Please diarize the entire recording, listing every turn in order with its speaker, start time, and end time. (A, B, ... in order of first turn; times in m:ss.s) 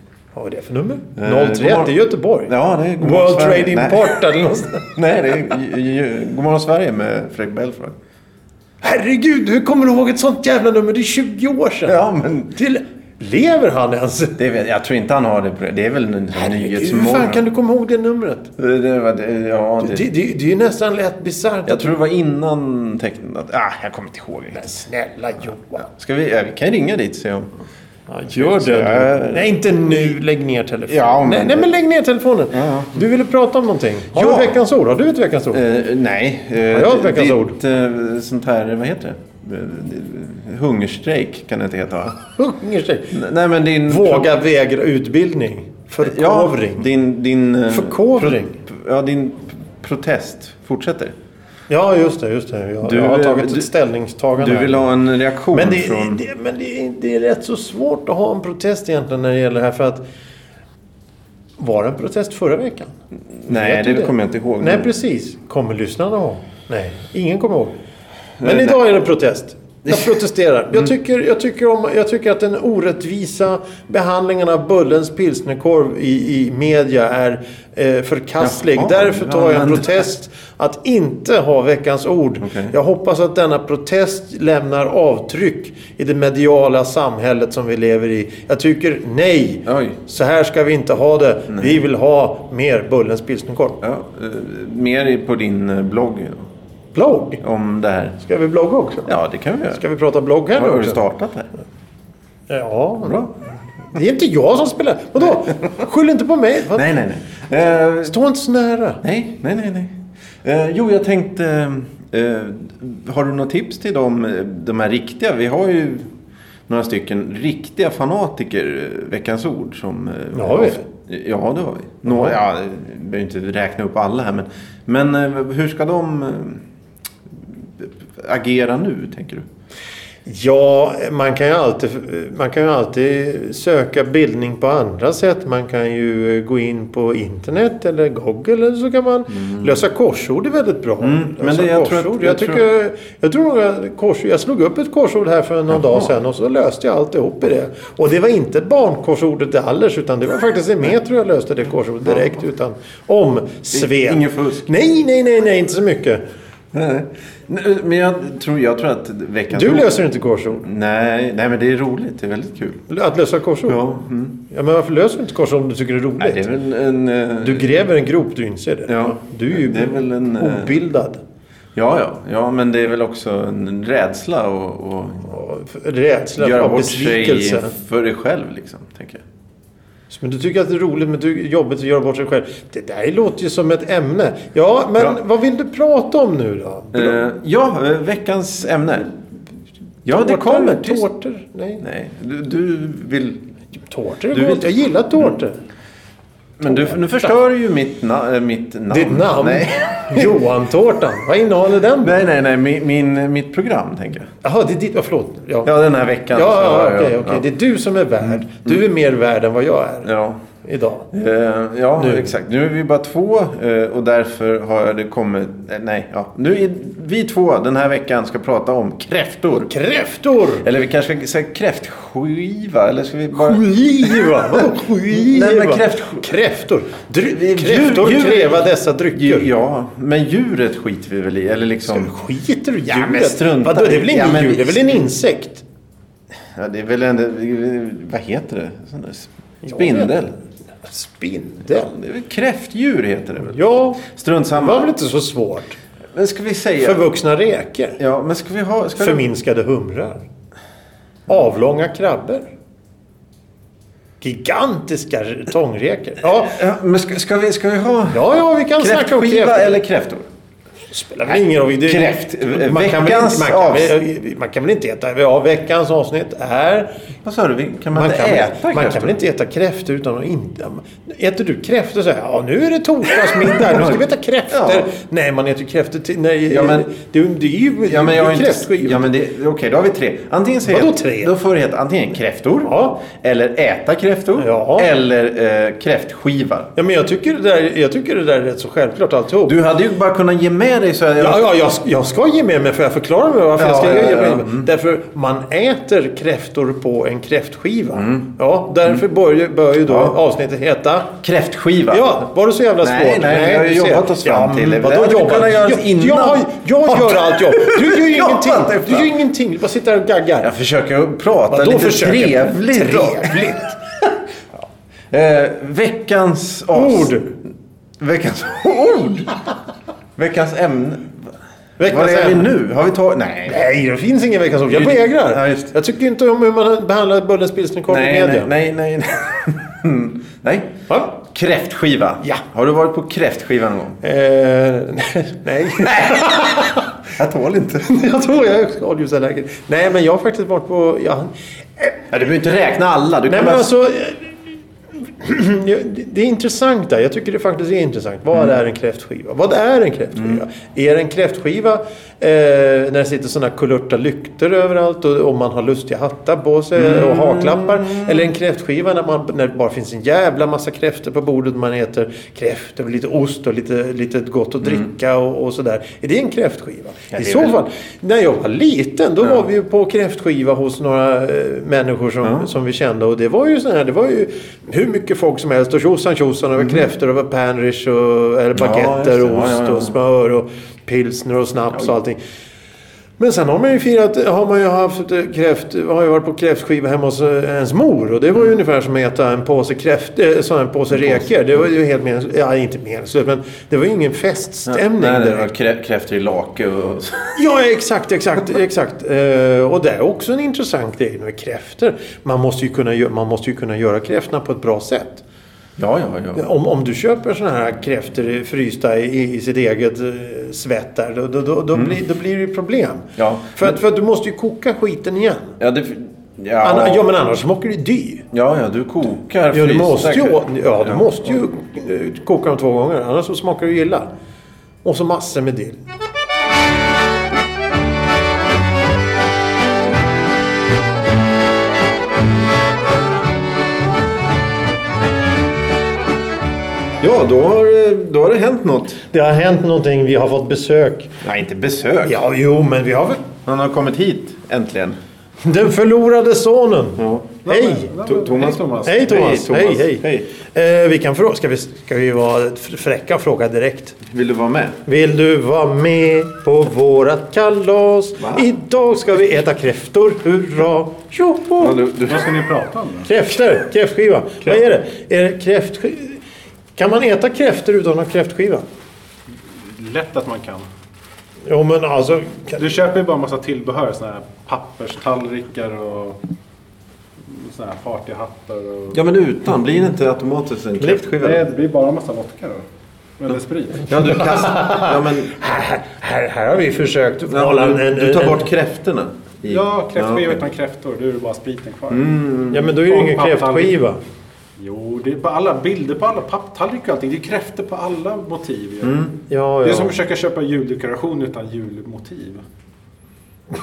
0:00.3-0:05.0 A
0:01.2-0:04.1 B
0:05.0-0:08.0 B
0:08.8-0:12.0 A
0:11.9-0:12.5 B
0:12.5-0:14.4 A
0:14.4-0:17.4 B
0:16.3-0:18.5 A
0:18.6-0:20.1 B
0:19.8-0:22.0 A
0:21.7-0:24.7 B
0:24.5-0:25.9 A
0:25.8-0:27.5 B
0:28.1-0:35.6 A
0:28.3-0:30.2 B
0:30.9-0:31.7 B
0:32.5-0:33.0 B
0:34.1-0:34.6 B
0:35.5-0:42.2 B
0:36.7-0:37.6 A
0:42.4-0:43.2 A
0:43.1-0:44.3 B
0:43.9-0:46.9 A
0:46.0-0:51.2 B
0:47.7-0:48.6 A
0:51.7-0:54.9 A
0:52.8-0:53.7 B
0:54.4-0:56.2 B
0:55.5-1:00.0 A
1:01.6-1:02.9 A
1:03.4-1:04.9 B
1:03.5-1:07.7 A
1:08.4-1:08.8 B
1:08.4-1:33.8 A
1:09.8-1:10.2 B
1:18.4-1:20.0 B
1:22.4-1:22.8 B
1:29.7-1:30.0 B
1:31.5-1:31.8 B
1:33.8-1:36.5 B
1:36.9-1:37.4 A
1:37.4-1:38.2 B
1:38.2-1:39.1 A
1:39.1-1:39.8 B
1:39.7-1:41.0 A
1:40.5-1:41.5 B
1:42.5-1:43.3 A
1:43.0-1:43.3 B
1:43.9-1:46.9 A
1:46.8-1:48.2 B
1:48.0-1:49.0 A
1:49.0-1:49.9 B
1:50.4-1:56.1 B
1:56.7-2:06.6 B
2:00.3-2:00.8 A
2:02.0-2:02.4 A
2:07.4-2:09.4 B
2:10.2-2:36.2 A
2:21.0-2:22.6 B
2:33.7-2:34.7 B
2:36.7-2:39.9 B
2:39.5-2:40.6 A
2:40.6-2:42.8 B
2:42.9-2:43.9 A
2:43.7-2:44.4 B
2:44.5-2:46.5 A
2:46.2-2:47.7 B
2:47.4-2:51.2 A
2:48.9-2:50.7 B
2:51.8-2:55.3 B
2:55.2-2:57.7 A
2:56.4-2:59.2 B
3:00.1-3:07.2 A
3:06.9-3:09.2 B
3:10.0-3:11.1 B
3:10.1-3:11.8 A
3:11.8-3:13.4 B
3:13.9-3:15.6 A
3:14.3-3:15.3 B
3:16.6-3:20.4 B
3:16.6-3:17.3 A
3:18.9-3:22.2 A
3:22.0-3:24.3 B
3:24.4-3:25.7 A
3:25.6-3:27.4 B
3:26.3-3:30.1 A
3:28.5-3:28.8 B
3:30.0-3:30.4 B
3:30.6-3:31.1 A
3:31.1-3:39.7 B
3:32.0-3:32.3 A
3:39.6-3:40.6 A
3:40.6-3:46.3 B
3:43.4-3:49.5 A
3:47.3-3:52.1 B
3:51.9-3:55.6 A
3:52.9-3:55.0 B
3:56.6-4:00.4 B
3:59.6-4:00.2 A
4:00.8-4:01.9 A
4:01.7-4:04.9 B
4:03.4-4:05.8 A
4:06.1-4:07.0 B
4:06.8-4:08.0 A
4:08.0-4:09.2 B
4:09.0-4:10.2 A
4:11.3-4:12.4 A
4:14.2-4:16.6 A
4:16.2-4:18.2 B
4:18.1-4:19.8 A
4:18.8-4:20.2 B
4:20.9-4:26.9 A
4:21.8-4:24.0 B
4:27.2-4:29.2 B
4:27.9-4:39.1 A
4:33.7-4:34.0 B
4:34.5-4:34.9 B
4:36.5-4:36.9 B
4:37.9-4:46.7 B
4:40.7-4:41.3 A
4:42.6-4:43.0 A
4:44.4-4:44.9 A
4:46.8-4:49.6 A
4:49.4-4:51.5 B
4:51.2-5:01.1 A
4:53.6-4:54.7 B
4:58.0-4:58.3 B
4:59.9-5:00.2 B
5:01.2-5:02.1 B
5:01.9-5:10.5 A
5:02.8-5:09.1 B
5:10.4-5:13.5 B
5:11.5-5:13.8 A
5:15.1-5:17.1 B
5:16.7-5:17.3 A
5:18.0-5:19.4 B
5:20.2-5:21.3 B
5:21.8-5:22.5 A
5:21.8-5:23.6 B
5:23.5-5:28.5 A
5:24.7-5:25.7 B
5:27.9-5:34.0 B
5:30.9-5:31.1 A
5:34.0-5:36.9 A
5:35.8-5:36.3 B
5:37.2-5:37.9 B
5:37.8-5:42.0 A
5:42.1-5:43.7 B
5:43.3-5:44.4 A
5:45.2-6:22.2 A
5:56.8-5:58.3 B
6:07.1-6:07.6 B
6:12.2-6:12.5 B
6:16.6-6:16.8 B
6:18.5-6:20.0 B
6:23.2-6:35.5 A
6:31.0-6:31.2 B
6:34.7-6:37.3 B
6:37.4-6:45.2 A
6:45.8-6:46.4 B
6:46.3-6:55.6 A
6:53.2-6:53.8 B
6:55.6-6:57.1 B
6:56.6-6:58.2 A
6:58.3-7:01.1 B
6:59.5-7:04.1 A
7:04.8-7:05.8 A
7:17.0-7:19.0 B
7:19.1-7:21.1 A
7:21.2-7:22.2 B
7:22.0-7:23.2 A
7:23.4-7:25.0 B
7:25.4-7:27.9 A
7:27.0-7:27.4 B
7:27.4-7:29.2 C
7:28.0-7:30.3 B
7:28.8-7:34.0 A
7:34.1-7:34.8 B
7:34.8-7:41.8 A
7:38.2-7:38.5 B
7:41.6-7:42.4 B
7:42.0-7:43.1 C
7:43.0-7:46.2 A
7:46.8-7:48.6 A
7:49.6-7:50.7 C
7:51.5-7:52.6 A
7:52.6-7:56.2 C
7:57.2-7:59.0 C
7:58.9-8:01.4 B
8:00.8-8:01.1 A
8:01.2-8:02.6 C
8:03.2-8:03.9 C
8:03.9-8:05.4 B
8:04.0-8:08.5 A
8:07.3-8:10.4 B
8:09.5-8:12.1 C
8:11.9-8:12.7 B
8:12.5-8:14.0 A
8:12.7-8:13.8 C
8:14.6-8:19.0 C
8:18.8-8:19.1 B
8:19.3-8:20.0 A
8:19.6-8:22.4 C